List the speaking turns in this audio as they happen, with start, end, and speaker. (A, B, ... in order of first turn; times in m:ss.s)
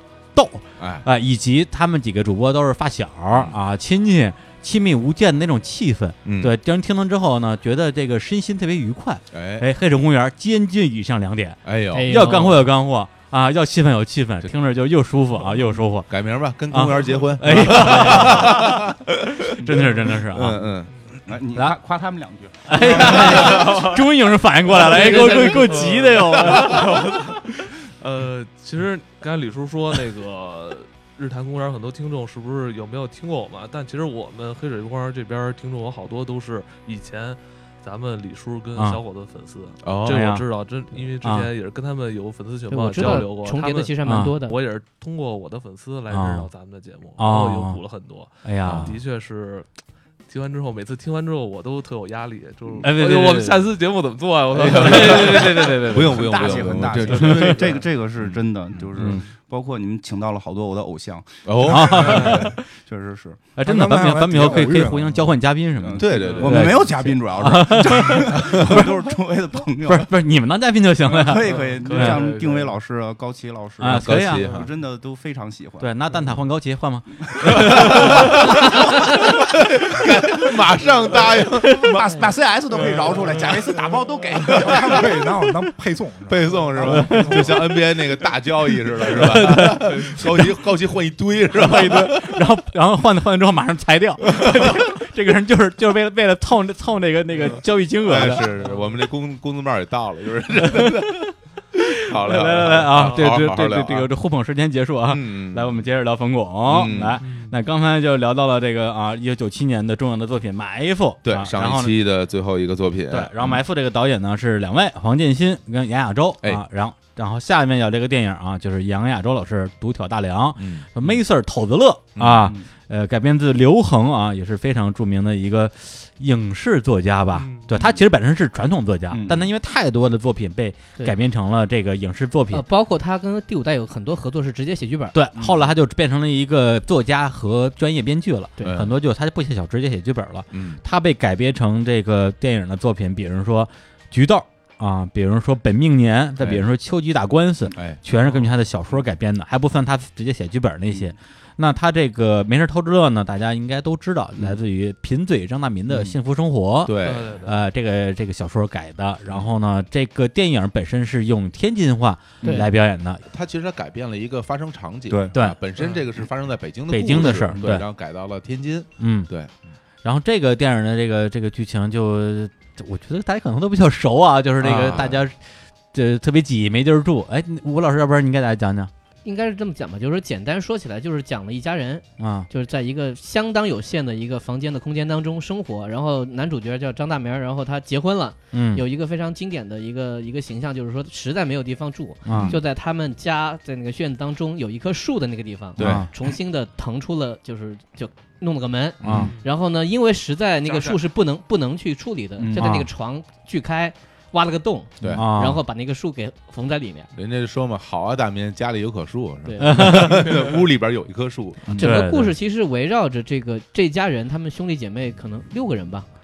0:00.3-0:16.1 A
0:00.8-0:01.0 B
0:03.3-0:03.6 B
0:06.2-0:06.6 B
0:09.3-0:09.7 B
0:11.6-0:12.4 B
0:11.9-0:12.6 C
0:16.1-0:20.9 B
0:16.7-0:18.8 A
0:17.8-0:18.2 D
0:19.6-0:20.6 A
0:19.6-0:20.0 E
0:21.2-0:23.7 E
0:22.6-0:27.3 A
0:23.0-0:23.6 C
0:23.2-0:23.8 D
0:23.4-0:23.8 B
0:24.7-0:49.7 D
0:25.0-0:25.4 C
0:39.8-0:40.2 B
0:40.1-0:40.4 A
0:41.2-0:41.5 A
0:42.7-0:44.6 C
0:43.0-0:43.2 A
0:44.0-0:44.4 A
0:46.1-0:46.5 A
0:47.2-0:47.8 A
0:48.4-0:49.0 A
0:48.6-0:48.9 B
0:50.3-0:57.8 D
0:52.8-0:53.7 A
0:54.5-0:59.2 B
0:54.8-1:03.5 E
0:55.0-0:55.8 A
1:01.4-1:02.5 B
1:01.6-1:02.6 A
1:01.9-1:02.4 D
1:03.6-1:09.0 A
1:03.6-1:05.3 F
1:05.8-1:10.1 E
1:06.0-1:06.9 B
1:06.1-1:06.7 D
1:08.3-1:08.8 B
1:09.8-1:12.2 A
1:11.0-1:15.9 E
1:11.5-1:12.8 D
1:13.8-1:14.6 A
1:13.8-1:14.7 B
1:15.8-1:19.3 A
1:17.4-1:18.2 E
1:17.7-1:22.2 B
1:21.5-1:22.0 A
1:21.6-1:25.2 E
1:23.0-1:23.5 B
1:23.2-1:24.1 D
1:24.5-1:24.9 B
1:24.6-1:27.8 F
1:26.3-1:32.4 B
1:27.0-1:27.7 A
1:29.1-1:30.6 A
1:29.8-1:30.1 D
1:31.5-1:38.5 A
1:34.2-1:34.9 B
1:37.3-1:37.6 D
1:37.4-1:41.3 B
1:38.3-1:38.8 D
1:40.7-1:52.0 A
1:42.1-1:44.1 B
1:42.9-1:43.4 D
1:45.1-1:45.8 B
1:46.6-1:47.2 B
1:47.2-1:47.6 D
1:51.2-1:53.6 B
1:53.1-2:12.6 A
2:00.6-2:01.2 B
2:02.2-2:02.5 B
2:07.3-2:07.7 D
2:09.1-2:09.5 E
2:12.5-2:15.2 C
2:15.1-2:43.2 A
2:15.4-2:15.7 E
2:18.6-2:19.0 B
2:20.5-2:20.8 B
2:26.4-2:26.7 B
2:27.7-2:28.0 B
2:28.2-2:28.5 D
2:35.9-2:36.2 E
2:36.8-2:37.4 B
2:37.0-2:37.6 D
2:42.4-2:42.7 E
2:43.3-2:49.6 B
2:45.1-2:45.3 E
2:45.8-2:46.0 D
2:46.9-2:47.8 A
2:47.3-2:47.8 E
2:49.0-2:49.3 A
2:50.0-2:55.4 A
2:54.6-2:55.2 B
2:55.9-2:58.9 A
2:59.2-3:27.1 C
3:02.2-3:02.5 A
3:08.5-3:08.8 A
3:12.2-3:12.5 A
3:12.3-3:12.6 B
3:15.8-3:16.1 B
3:15.8-3:16.1 A
3:19.0-3:19.3 B
3:19.0-3:19.3 A
3:19.1-3:19.5 D
3:20.7-3:21.0 D
3:22.4-3:22.7 E
3:22.5-3:22.9 A
3:25.0-3:25.3 B
3:25.1-3:25.6 A
3:27.1-3:31.8 B
3:29.4-3:30.1 C
3:29.6-3:30.4 A
3:30.3-3:30.5 D
3:31.8-3:36.1 C
3:31.8-3:32.3 A